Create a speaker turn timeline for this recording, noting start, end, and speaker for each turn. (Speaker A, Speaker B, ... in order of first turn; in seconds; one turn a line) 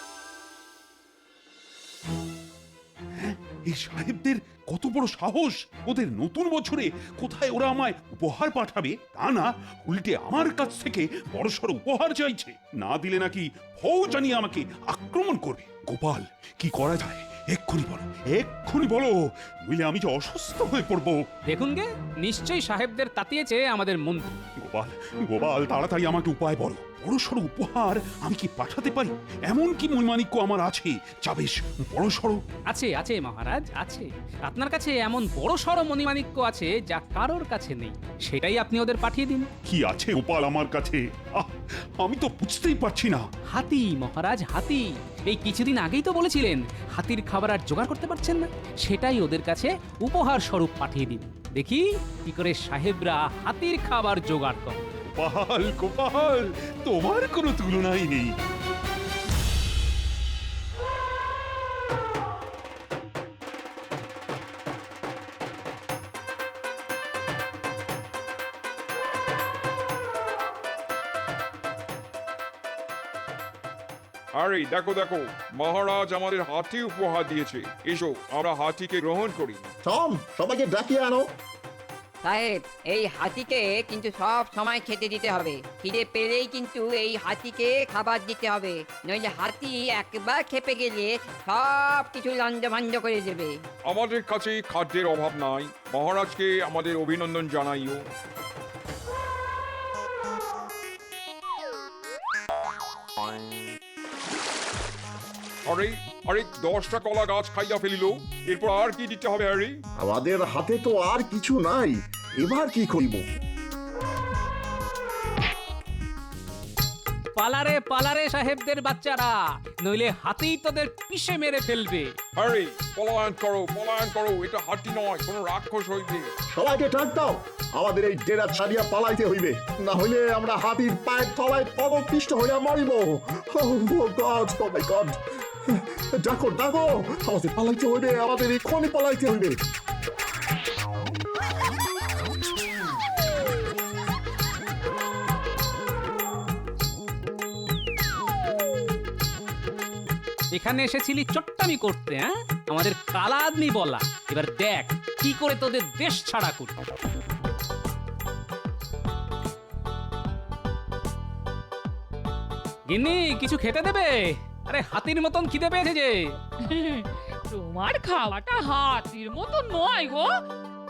Speaker A: 3.2-21.2
Speaker B: 21.5-24.4
Speaker A: 24.6-32.4
Speaker B: 32.7-39.5
Speaker A: 39.6-43.2
Speaker B: 43.5-54.8
Speaker A: 55.1-58.3
Speaker C: 74.4-79.7
Speaker D: 79.8-81.2
Speaker E: 82.2-93.5
Speaker C: 93.9-98.0
Speaker C: 105.7-109.7
Speaker D: 110.0-113.2
Speaker B: 117.3-122.1
Speaker C: 122.3-126.3
Speaker D: 126.5-135.1
Speaker D: 135.7-139.6
Speaker B: 150.5-156.7
Speaker B: 162.9-166.2
Speaker F: 166.7-170.3